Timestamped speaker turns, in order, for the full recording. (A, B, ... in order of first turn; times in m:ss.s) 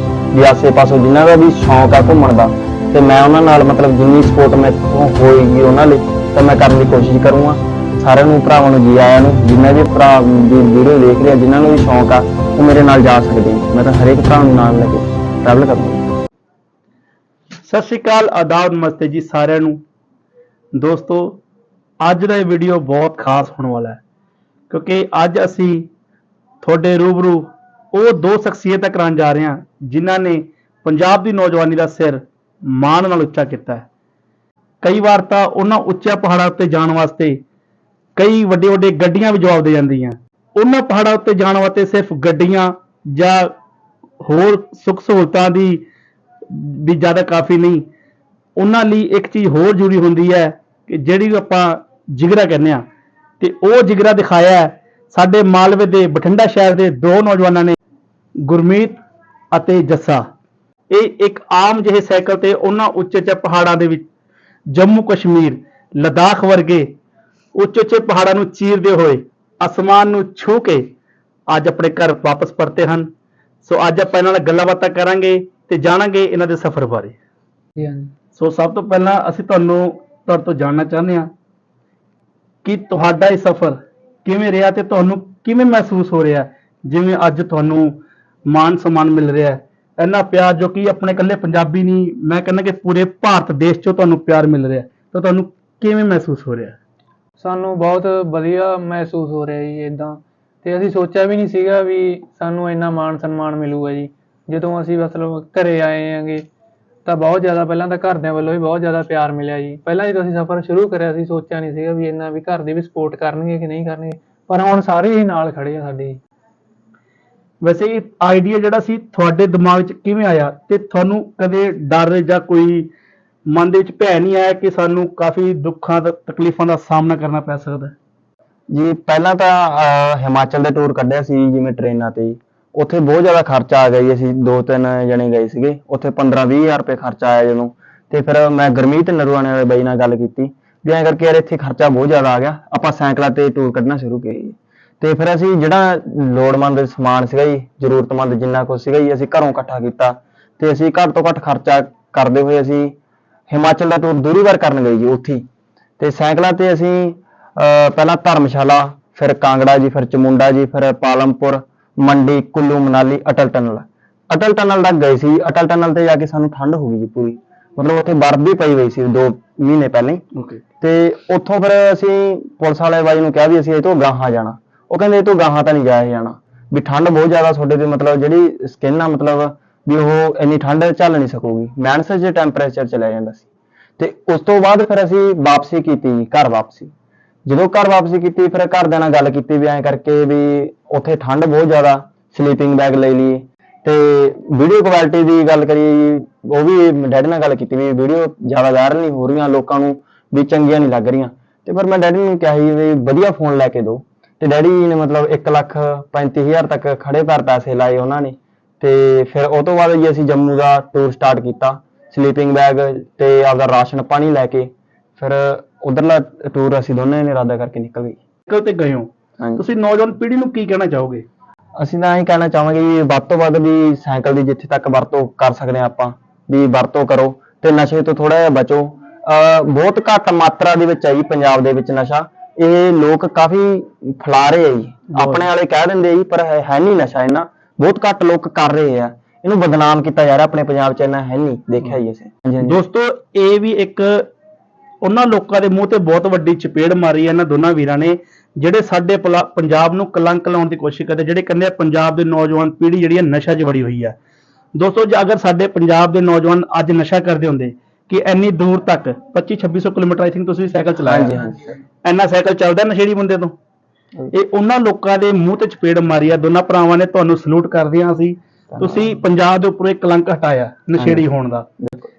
0:00.3-0:16.1 A
0:17.6-0:19.8 B
0:20.8-0:21.4 B
0:22.0-0:24.0 B
0:24.7-0:25.9 B
0:26.6-0:33.9 B
0:34.8-0:37.4 B
0:38.2-0:43.6 B
0:44.2-0:45.8 B
0:46.5-0:47.9 B
0:48.6-0:52.8 B
0:53.4-0:57.8 B
0:58.4-0:59.0 B
0:59.5-1:00.2 B
1:00.9-1:04.1 B
1:04.7-1:06.9 B
1:07.5-1:10.9 B
1:11.5-1:13.1 B
1:13.6-1:17.2 B
1:17.8-1:18.1 C
1:18.4-1:21.3 B
1:22.6-1:36.8 B
1:37.4-1:46.5 C
1:47.0-1:56.2 C
1:57.6-2:02.9 B
2:03.5-2:08.0 B
2:08.7-2:32.9 A
2:33.5-2:35.4 A
2:36.0-2:50.2 A
2:50.3-2:50.6 B
2:50.8-3:03.5 A
3:04.0-3:06.9 A
3:07.5-3:38.2 A
3:38.5-3:41.3 B
3:41.8-4:02.8 A
3:55.1-3:55.5 B
4:02.6-4:04.3 B
4:05.0-4:14.2 B
4:14.8-4:21.5 B
4:21.0-4:21.8 A
4:22.0-4:23.6 B
4:24.3-4:31.7 B
4:28.7-4:29.1 A
4:31.0-4:31.2 A
4:31.8-4:32.1 A